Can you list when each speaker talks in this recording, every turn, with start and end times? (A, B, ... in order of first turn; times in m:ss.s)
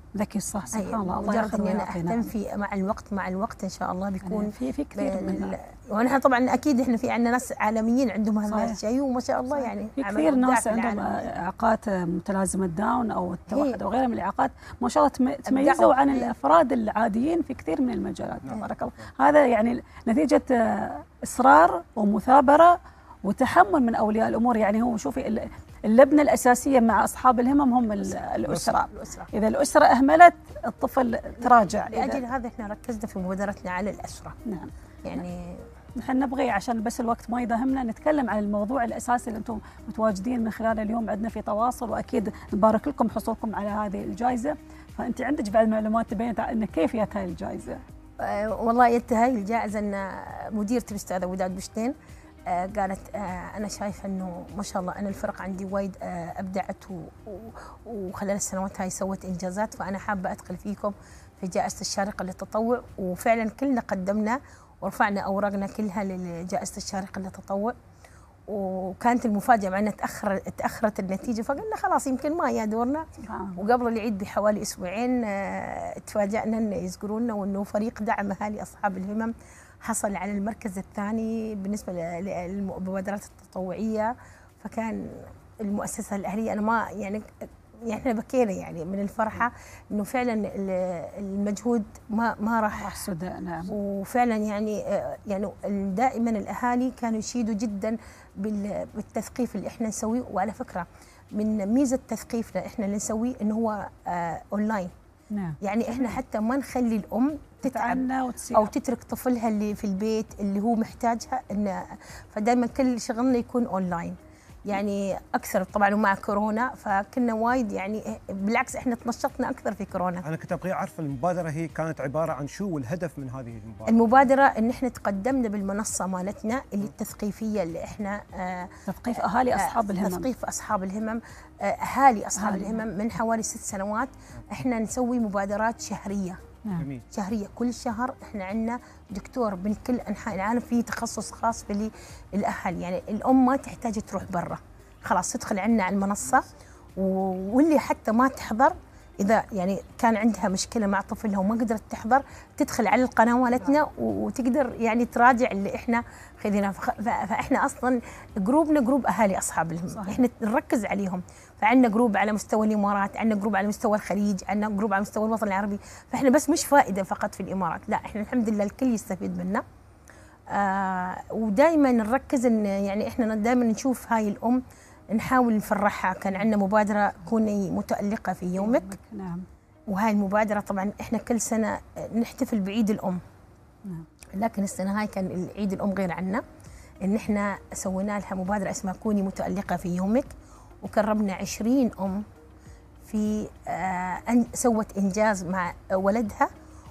0:00.2-0:02.3 A
0:00.7-0:11.2 B
0:04.2-0:05.5 A
0:08.5-0:08.8 A
0:09.6-0:32.2 A
0:13.5-0:13.8 B
0:15.5-0:16.3 B
0:28.8-0:29.3 B
0:31.4-0:34.4 B
0:34.5-0:34.7 A
0:35.0-0:35.7 B
0:36.0-0:47.8 A
0:48.2-0:52.0 B
0:52.5-1:07.8 B
1:08.5-1:13.0 B
1:13.2-1:13.6 A
1:13.6-1:27.3 B
1:27.8-1:33.1 B
1:32.8-1:33.7 A
1:33.7-1:44.9 B
1:45.3-1:46.2 A
1:45.6-2:00.2 B
1:47.6-1:48.7 A
2:00.2-2:04.0 C
2:03.9-2:16.4 B
2:08.9-2:10.3 A
2:12.4-2:12.8 A
2:16.8-2:17.1 C
2:17.1-2:49.6 B
2:39.9-2:40.2 A
2:50.5-2:54.6 B
2:55.1-2:58.9 B
2:58.6-2:59.4 A
2:59.9-3:03.2 B
3:04.4-3:06.4 B
3:07.0-3:10.3 B
3:10.8-3:12.2 B
3:13.0-3:16.5 B